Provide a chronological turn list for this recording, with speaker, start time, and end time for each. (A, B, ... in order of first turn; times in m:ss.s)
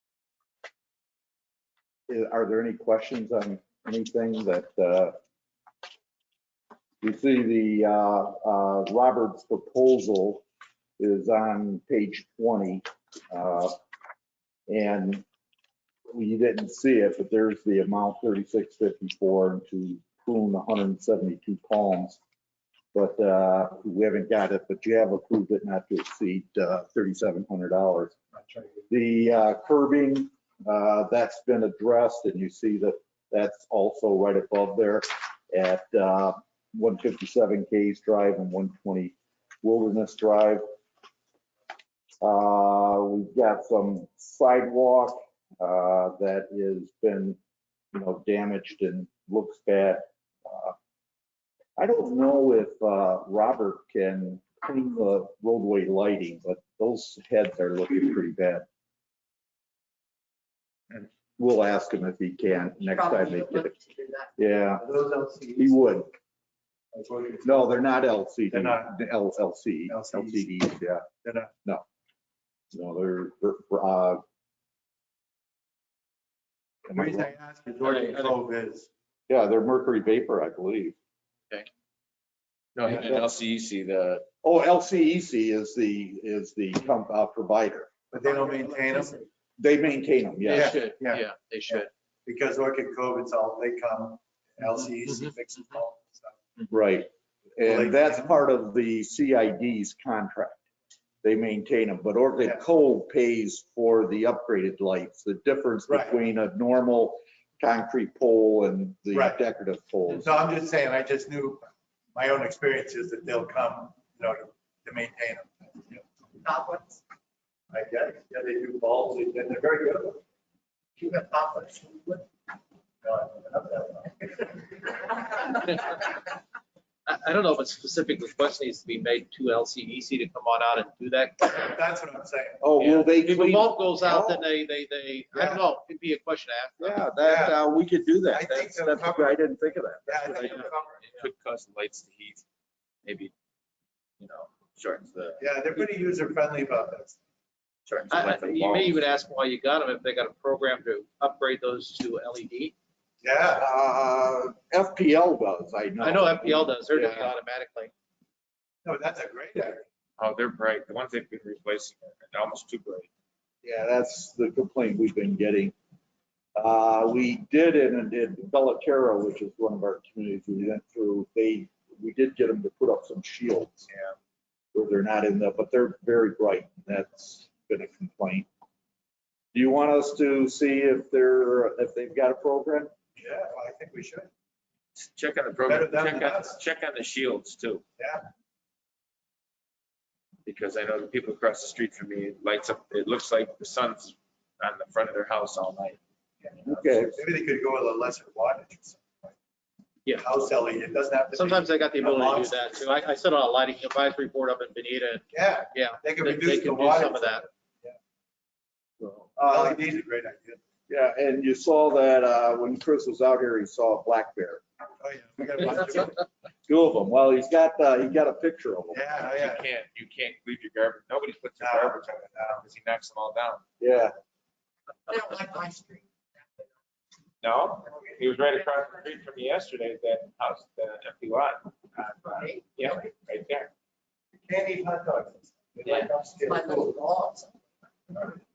0:02.1-0:05.2 A
0:07.0-0:10.4 A
0:11.0-0:13.8 A
0:14.7-0:15.2 A
0:16.1-0:22.2 A
0:22.9-0:28.2 A
0:28.9-0:40.6 A
0:42.2-0:47.4 A
0:47.9-0:50.8 A
0:51.8-0:58.7 A
1:01.0-1:03.8 A
1:02.9-1:04.2 B
1:04.4-1:04.9 A
1:04.8-1:05.7 C
1:05.6-1:06.1 A
1:06.9-1:07.6 C
1:07.4-1:11.1 A
1:08.5-1:08.9 C
1:09.9-1:10.5 C
1:11.2-1:11.5 C
1:12.7-1:14.2 A
1:16.9-1:17.3 A
1:16.9-1:18.9 C
1:17.8-1:18.4 D
1:19.3-1:21.0 A
1:22.8-1:24.3 E
1:22.9-1:23.3 A
1:24.4-1:27.9 A
1:28.1-1:29.2 C
1:28.3-1:29.2 B
1:29.6-1:30.8 A
1:30.4-1:31.9 D
1:30.5-1:36.4 C
1:36.7-1:40.6 A
1:37.6-1:38.4 C
1:41.2-1:50.3 A
1:45.9-1:46.2 C
1:49.1-1:49.4 C
1:50.2-1:56.0 C
1:56.4-1:57.0 B
1:57.7-2:00.2 C
2:01.0-2:02.2 B
2:03.0-2:04.5 C
2:05.4-2:06.2 D
2:07.1-2:11.8 D
2:11.6-2:12.6 C
2:12.6-2:14.5 A
2:12.8-2:17.1 D
2:16.8-2:20.7 A
2:17.2-2:17.6 C
2:18.3-2:19.4 C
2:20.1-2:21.0 C
2:21.0-2:22.4 E
2:23.0-2:23.3 E
2:24.2-2:25.4 E
2:25.4-2:27.2 C
2:27.9-2:29.0 E
2:28.1-2:32.8 D
2:33.2-2:33.7 C
2:33.6-2:37.3 A
2:36.0-2:37.9 D
2:38.8-2:39.8 C
2:40.2-2:43.1 E
2:43.6-2:45.8 A
2:46.6-2:53.9 A
2:54.7-2:58.5 A
2:59.5-3:02.9 A
3:03.2-3:04.3 C
3:05.0-3:07.8 E
3:05.7-3:06.6 C
3:08.0-3:08.3 C
3:10.4-3:16.0 E
3:16.5-3:19.3 C
3:16.6-3:17.2 A
3:20.2-3:22.9 C
3:21.3-3:27.4 D
3:25.3-3:27.9 C
3:29.0-3:29.8 A
3:29.4-3:30.6 C
3:30.9-3:34.6 A
3:35.0-3:36.2 C
3:35.7-3:36.1 A
3:36.7-3:39.1 A
3:38.9-3:39.6 C
3:39.2-3:43.6 E
3:41.6-3:42.6 C
3:43.8-3:44.2 A
3:45.1-3:46.6 B
3:47.4-3:51.7 E
3:52.1-3:52.5 C
3:52.3-3:52.8 B
3:52.8-3:53.7 E
3:54.4-3:57.0 C
3:55.9-3:57.5 B